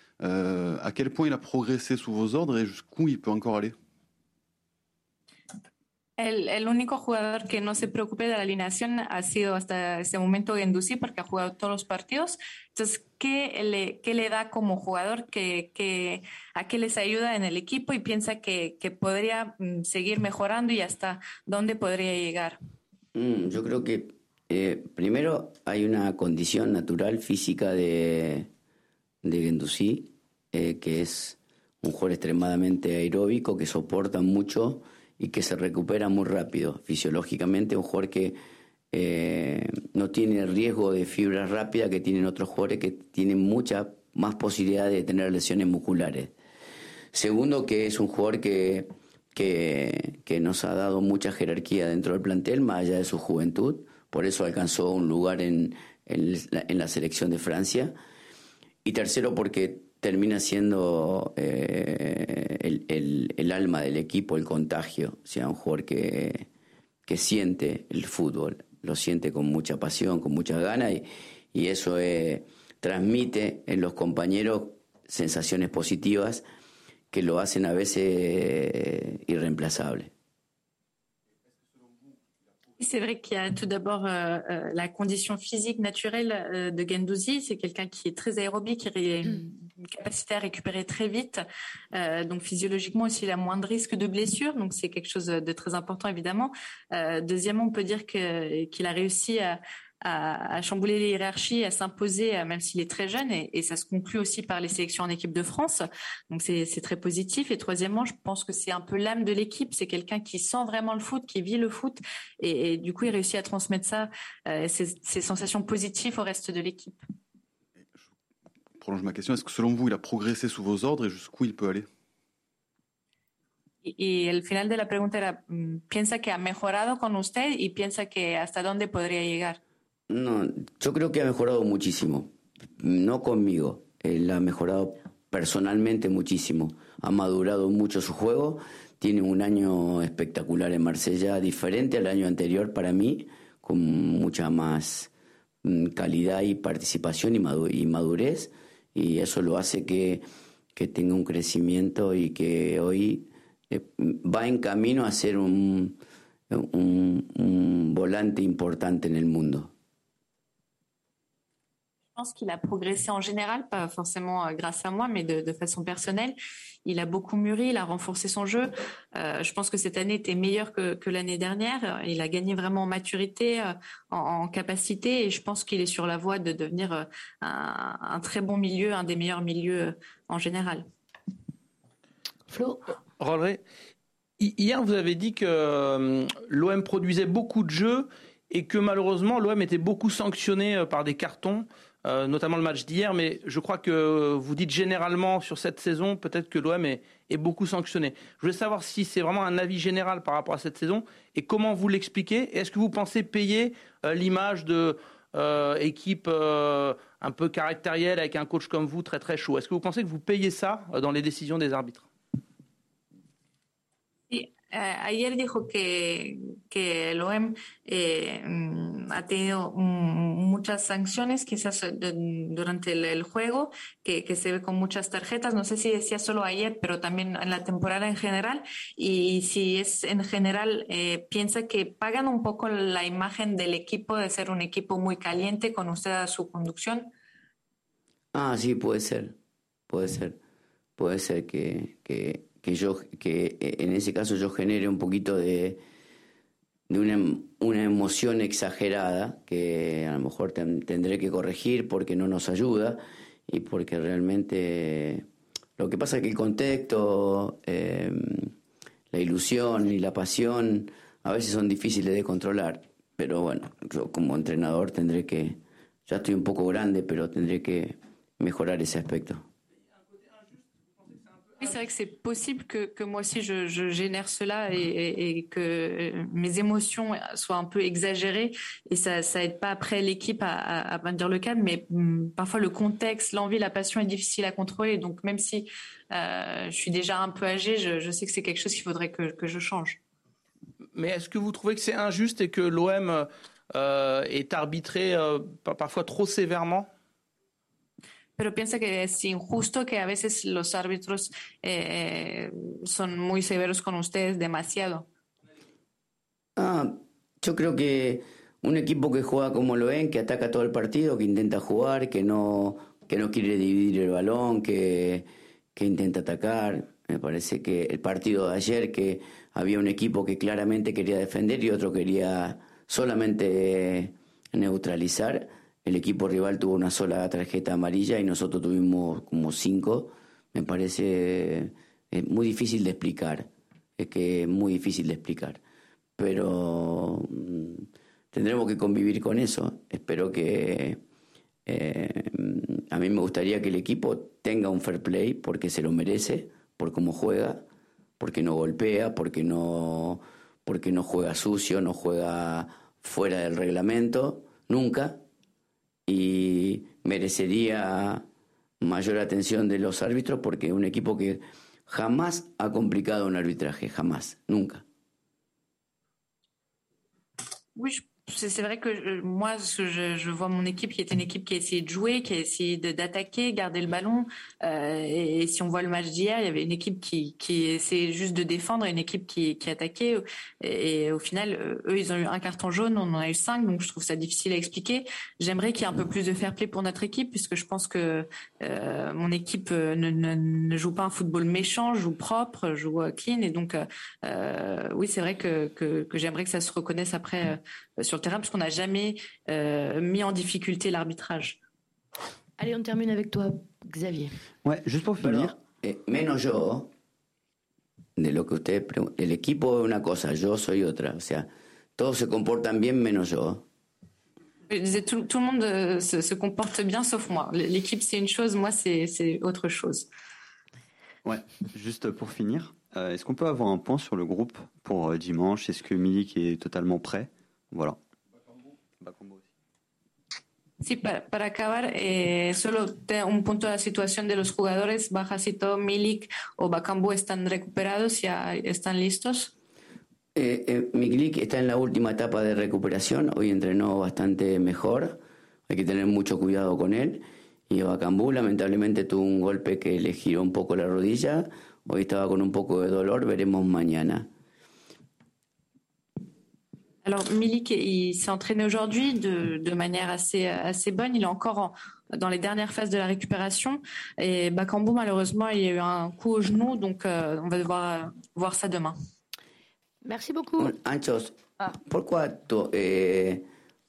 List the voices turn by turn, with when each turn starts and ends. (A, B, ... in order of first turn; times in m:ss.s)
0:00.2-0:03.7 A
0:06.2-0:22.6 B
0:23.1-0:28.5 C
0:29.2-0:38.4 C
0:38.9-0:46.3 C
0:47.1-0:58.0 C
0:58.8-1:06.5 C
1:07.0-1:16.4 C
1:17.1-1:20.1 C
1:22.8-1:31.4 B
1:31.9-1:57.0 B
1:58.8-2:01.9 A
2:03.8-2:09.6 B
2:10.1-2:25.1 C
2:25.6-2:36.0 C
2:36.5-2:39.7 C
2:42.2-3:00.8 B
3:02.5-3:02.9 D
3:03.2-3:03.6 E
3:04.4-3:32.1 E
3:34.3-3:57.1 B
3:58.3-3:59.4 C
3:59.9-4:00.4 C
4:01.0-4:05.8 C
4:06.9-4:15.2 C
4:15.8-4:18.5 C
4:19.1-4:29.4 C
4:31.6-4:50.0 B
4:50.9-4:56.9 E
4:58.4-5:05.0 B
5:06.6-5:35.6 C
5:36.2-5:41.0 C
5:41.6-5:47.6 C
5:48.2-5:55.2 C
5:56.0-5:58.2 C
5:58.8-6:04.8 C
6:07.8-6:41.6 B
6:42.6-6:44.4 D
6:44.6-6:45.5 F
6:45.2-6:46.9 C
6:48.2-6:53.6 C
6:54.7-7:00.1 B
7:01.2-7:08.0 F
7:09.0-7:09.4 F
7:10.8-7:19.5 B
7:20.3-7:34.3 C
7:37.0-7:49.0 B
7:50.0-7:50.7 D
7:50.6-7:53.4 C